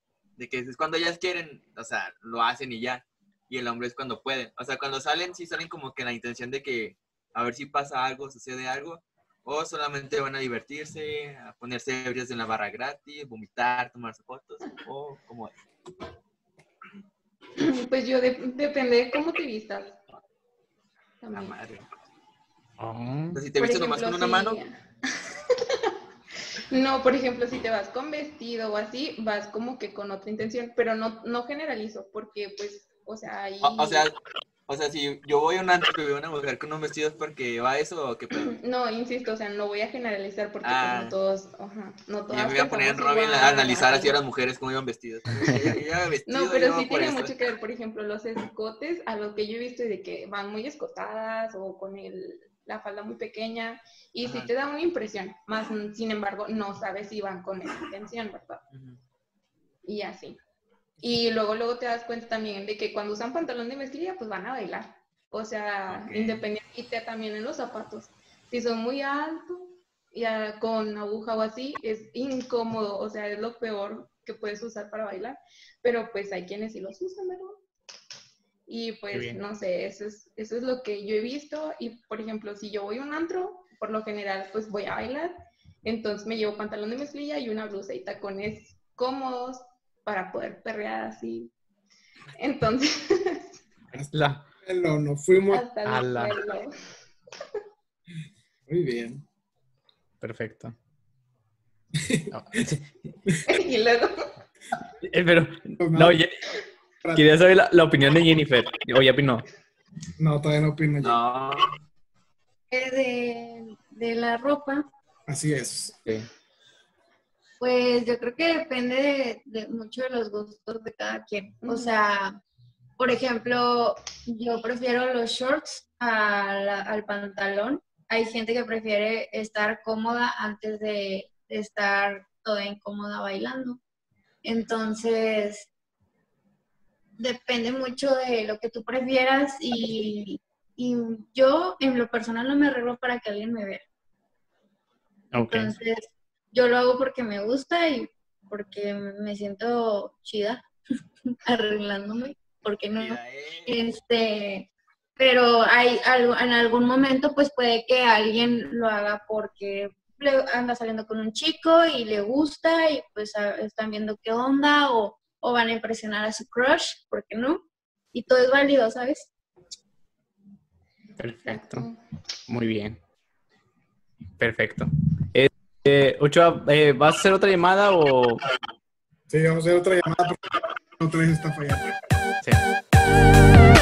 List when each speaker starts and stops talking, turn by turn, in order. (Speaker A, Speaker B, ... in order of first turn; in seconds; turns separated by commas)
Speaker A: 0.4-15.5, Speaker B: 17.6-20.0, Speaker B: 21.2-21.6, Speaker A: 21.3-21.9, Speaker C: 22.8-23.4, Speaker A: 23.3-24.6, Speaker B: 23.6-25.9, Speaker B: 26.7-34.1, Speaker A: 33.6-34.1, Speaker A: 34.7-38.5, Speaker B: 38.4-44.1, Speaker A: 40.6-41.1, Speaker A: 42.3-47.3, Speaker B: 45.4-45.7, Speaker B: 46.3-58.6, Speaker A: 54.2-54.5, Speaker A: 58.7-59.0, Speaker B: 59.8-60.4, Speaker B: 61.0-77.6, Speaker A: 65.9-66.5, Speaker B: 78.7-91.5, Speaker C: 79.1-79.4, Speaker B: 92.3-93.5, Speaker D: 93.9-95.7, Speaker C: 94.0-94.4, Speaker B: 95.5-96.7, Speaker C: 95.8-96.4, Speaker D: 98.7-99.2, Speaker C: 100.2-100.7, Speaker D: 102.0-102.3, Speaker C: 102.3-102.8, Speaker B: 103.4-104.3, Speaker C: 105.0-106.4, Speaker D: 105.8-106.2, Speaker C: 107.1-109.5, Speaker D: 110.2-111.2, Speaker A: 111.0-111.7, Speaker E: 112.7-114.8, Speaker D: 115.3-116.0, Speaker E: 117.6-122.4, Speaker B: 121.6-122.0, Speaker E: 123.0-133.8, Speaker E: 134.4-135.7, Speaker E: 137.2-143.8, Speaker C: 145.3-145.7, Speaker E: 145.4-150.6, Speaker E: 151.3-169.3, Speaker A: 153.0-153.7, Speaker C: 171.2-171.9, Speaker B: 171.4-172.0, Speaker C: 172.5-173.0, Speaker C: 174.4-178.4, Speaker D: 179.3-182.1